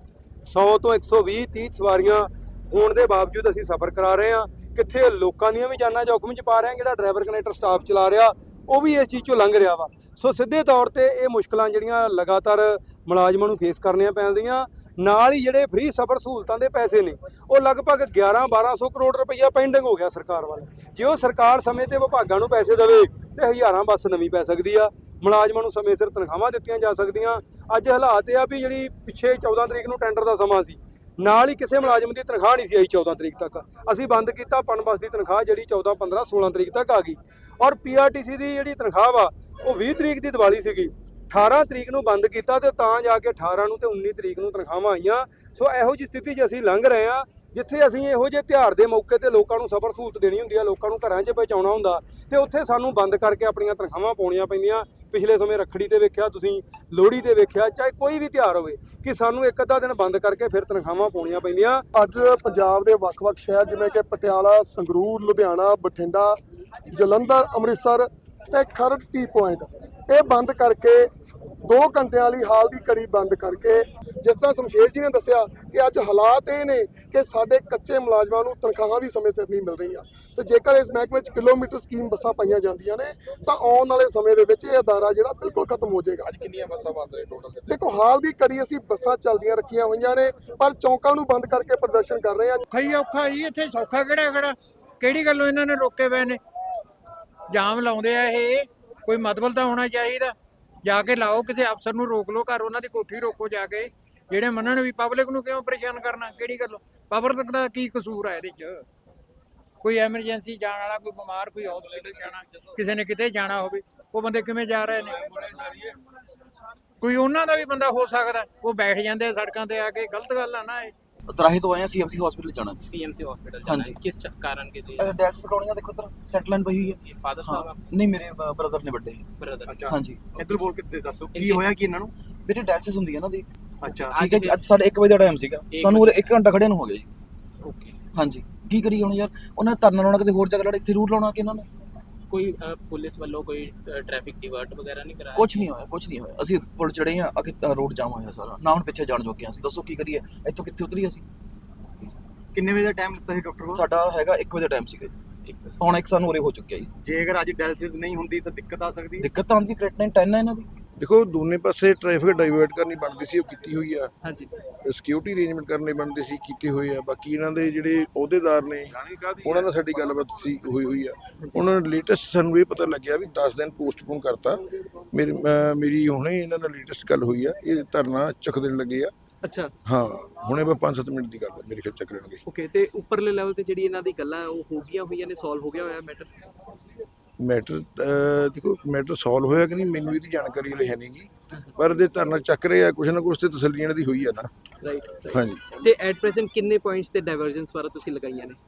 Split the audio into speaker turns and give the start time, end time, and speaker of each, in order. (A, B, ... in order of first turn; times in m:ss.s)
0:00.5-1:01.8 A
1:01.9-1:06.4 B
1:06.9-1:11.1 B
1:11.6-1:26.3 B
1:27.7-1:32.6 B
1:32.7-1:36.4 C
1:37.5-1:48.8 C
1:49.8-1:55.8 C
1:57.0-2:00.9 C
2:01.3-2:02.9 D
2:02.8-2:05.2 E
2:03.6-2:04.0 D
2:05.0-2:09.3 D
2:07.0-2:07.9 E
2:09.4-2:10.6 E
2:09.7-2:12.1 F
2:09.9-2:10.2 D
2:11.3-2:11.8 E
2:12.5-2:13.5 D
2:13.8-2:14.2 F
2:14.1-2:14.6 E
2:14.1-2:17.1 D
2:15.7-2:16.3 E
2:17.6-2:18.0 E
2:18.1-2:21.7 D
2:22.3-2:25.7 E
2:25.3-2:31.2 D
2:32.5-2:33.8 F
2:33.7-2:35.1 D
2:35.5-2:35.8 E
2:35.8-2:36.9 D
2:37.0-2:39.3 F
2:39.2-2:40.7 D
2:41.0-2:44.1 G
2:44.2-2:44.5 H
2:44.8-2:59.1 G
2:59.4-2:59.7 H
2:59.9-3:02.4 G
3:02.5-3:06.3 H
3:07.4-3:14.5 G
3:14.8-3:18.6 H
3:15.3-3:15.7 G